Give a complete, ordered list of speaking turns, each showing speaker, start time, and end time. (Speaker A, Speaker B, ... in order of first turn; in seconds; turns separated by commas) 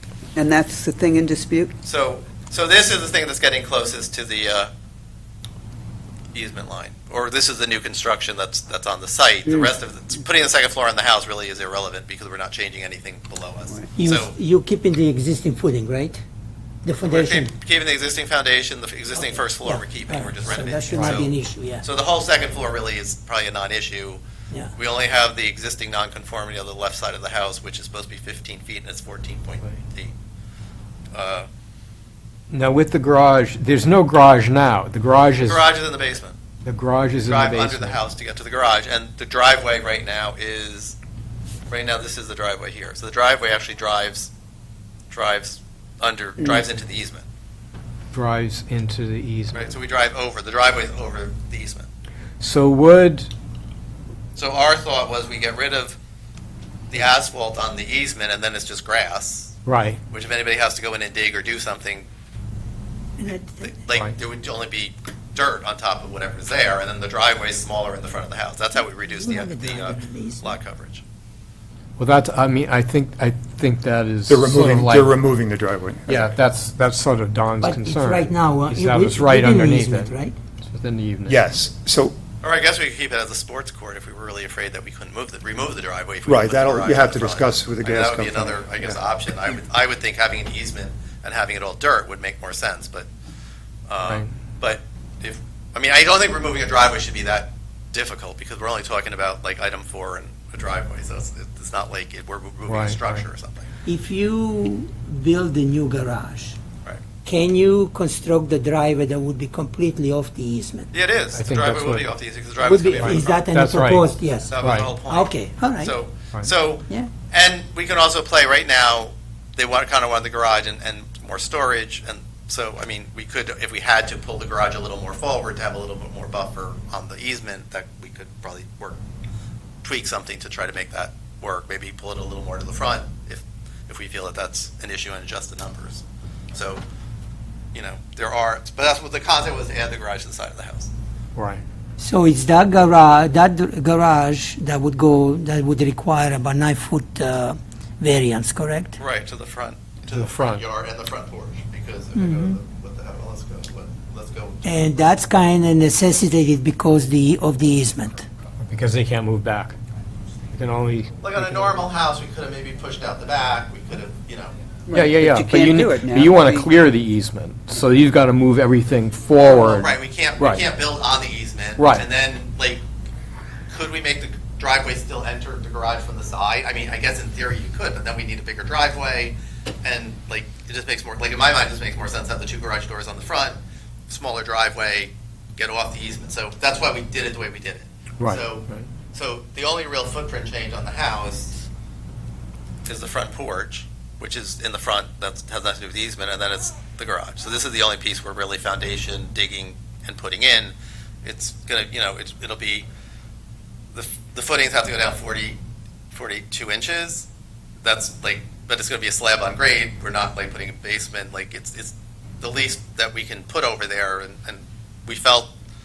Speaker A: 0.4-1.7, Speaker B: 1.8-4.7, Speaker B: 6.3-14.3, Speaker C: 14.0-16.2, Speaker C: 16.9-17.5, Speaker B: 17.0-24.2, Speaker C: 19.5-21.8, Speaker D: 20.9-21.2, Speaker B: 24.7-30.1, Speaker B: 31.1-31.5, Speaker D: 32.5-35.6, Speaker B: 35.4-36.4, Speaker D: 36.6-38.0, Speaker B: 37.3-41.0, Speaker B: 41.7-44.3, Speaker B: 45.1-47.2, Speaker D: 48.1-49.7, Speaker B: 49.5-51.9, Speaker D: 52.4-53.3, Speaker B: 54.4-56.0, Speaker B: 56.9-59.6, Speaker D: 59.7-60.0, Speaker B: 60.1-62.1, Speaker C: 63.2-63.8, Speaker B: 63.6-71.0, Speaker C: 69.0-70.5, Speaker D: 72.0-75.2, Speaker E: 74.3-76.3, Speaker D: 76.1-81.4, Speaker C: 77.6-80.4, Speaker E: 81.3-82.2, Speaker B: 82.4-93.1, Speaker E: 86.3-88.6, Speaker B: 93.9-103.7, Speaker D: 102.7-103.2, Speaker C: 103.9-106.6, Speaker C: 107.2-110.9, Speaker B: 110.9-113.5, Speaker D: 111.3-112.1, Speaker C: 112.6-115.9, Speaker D: 113.0-114.9, Speaker B: 114.4-129.0, Speaker B: 129.8-136.8, Speaker B: 137.7-140.9, Speaker D: 141.4-141.6, Speaker C: 142.0-149.0, Speaker B: 149.0-154.7, Speaker D: 150.1-150.6, Speaker C: 152.2-152.6, Speaker C: 154.6-158.3, Speaker D: 158.6-159.8, Speaker D: 160.5-161.7, Speaker B: 161.2-164.5, Speaker A: 164.9-166.7, Speaker D: 164.9-170.6, Speaker B: 169.5-172.8, Speaker D: 171.8-172.1, Speaker B: 173.7-183.6, Speaker B: 184.1-191.6, Speaker D: 188.2-188.9, Speaker B: 192.8-202.9, Speaker B: 203.9-205.6, Speaker B: 206.1-207.3, Speaker B: 207.8-215.5